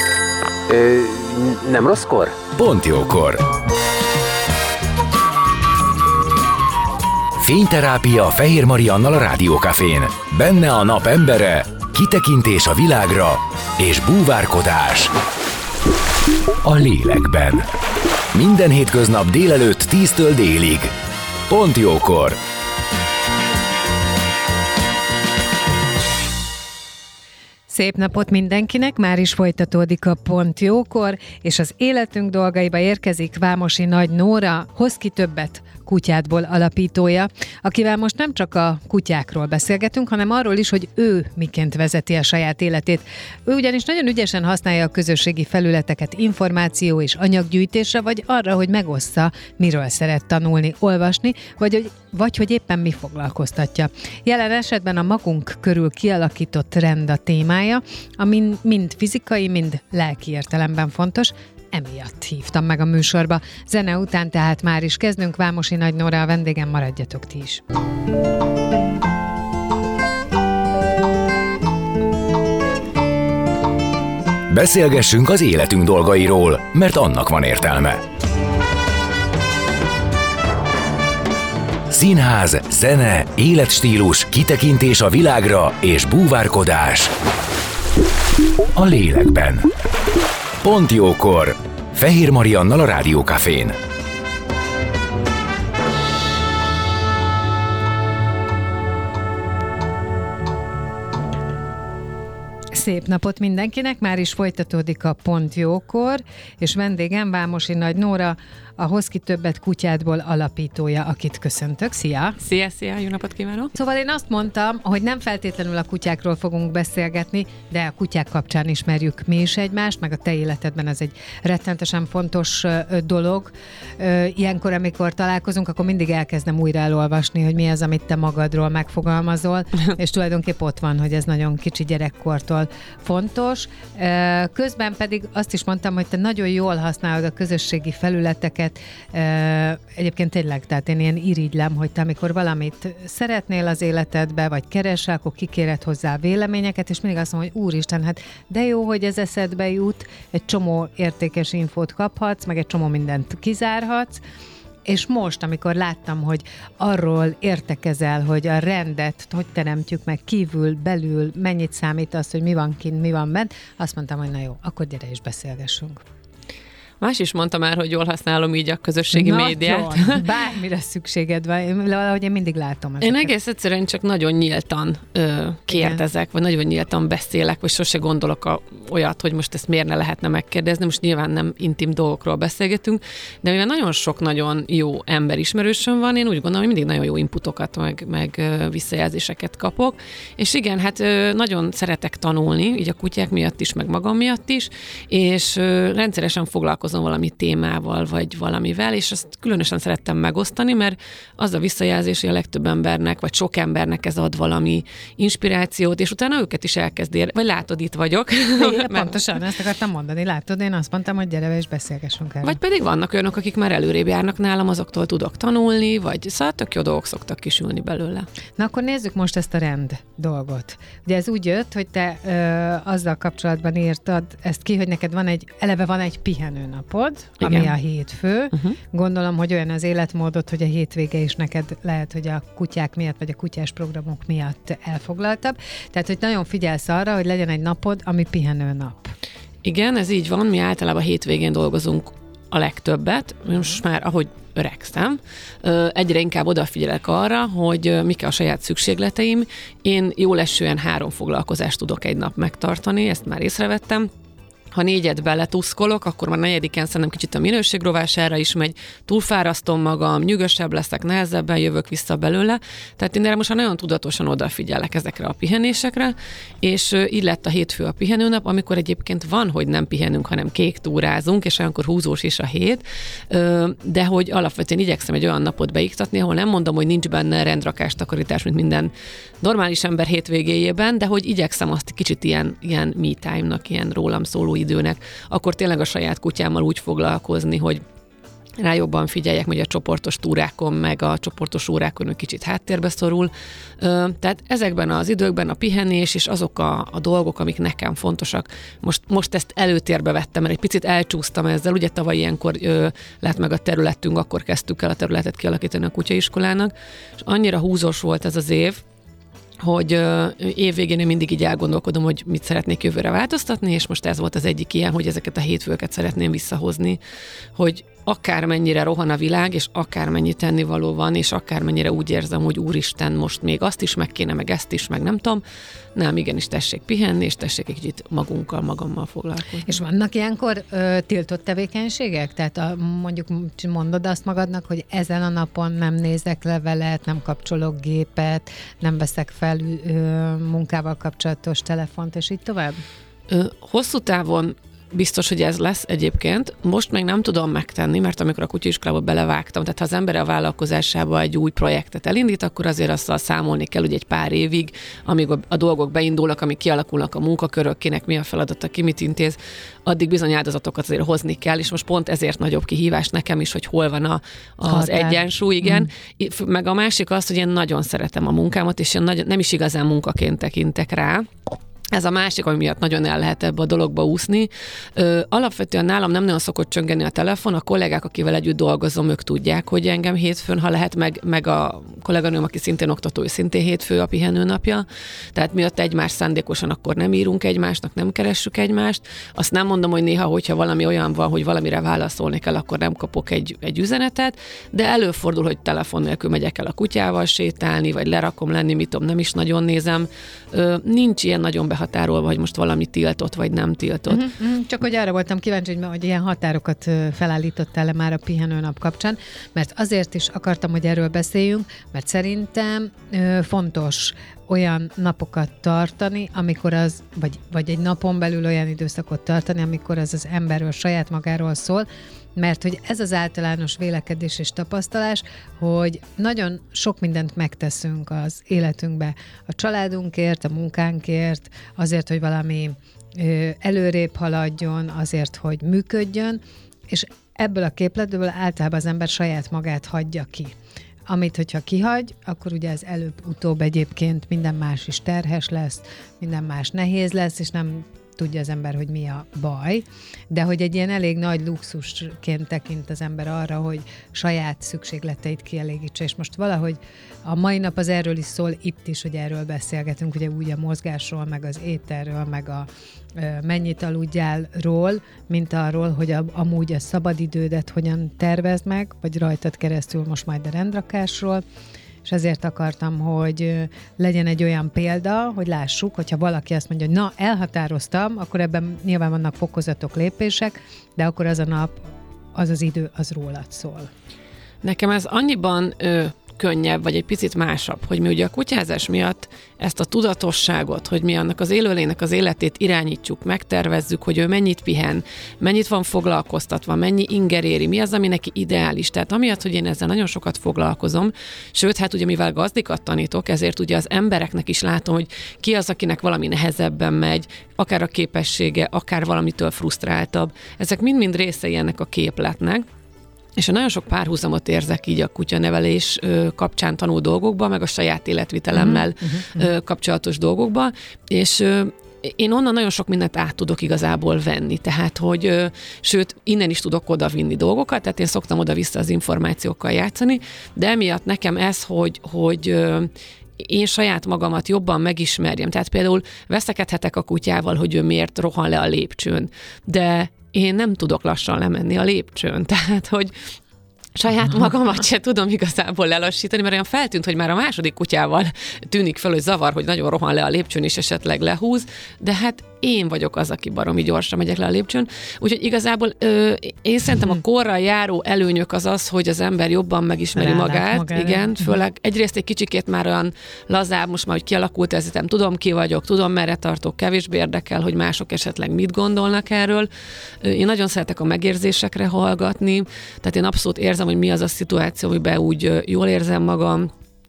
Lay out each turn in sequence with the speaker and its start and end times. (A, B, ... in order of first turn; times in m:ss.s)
0:00.7-0:03.4 A
0:07.4-0:15.1 A
0:16.6-0:17.6 A
0:18.3-0:20.9 A
0:21.5-0:22.4 A
0:27.7-1:07.6 B
1:14.5-1:18.0 A
1:21.9-1:27.1 A
1:28.8-1:29.7 A
1:30.6-1:33.8 A
1:42.7-1:52.4 B
1:52.4-1:53.7 C
1:53.7-2:34.2 B
2:34.9-2:46.0 B
2:47.0-2:50.2 C
2:49.1-2:53.3 B
2:53.0-3:29.2 C
2:55.7-2:56.0 B
3:28.6-3:32.6 B
3:32.4-3:38.3 C
3:38.6-3:59.1 B
3:47.4-3:47.7 C
3:59.6-4:14.1 C
4:14.7-4:47.8 C
4:48.6-5:08.8 C
5:09.6-5:17.0 C
5:17.6-5:25.4 C
5:26.0-5:29.7 C
5:29.7-5:42.8 B
5:43.3-6:11.3 C
6:04.6-6:05.9 B
6:11.9-6:44.2 C
6:44.1-7:20.5 B
7:21.1-7:51.4 B
7:52.0-8:01.8 B
8:02.3-8:03.9 B
8:04.6-8:32.6 C
8:33.4-9:03.1 C
8:38.5-8:39.5 B
9:04.0-9:29.7 C
9:20.1-9:21.6 B
9:30.2-9:36.7 C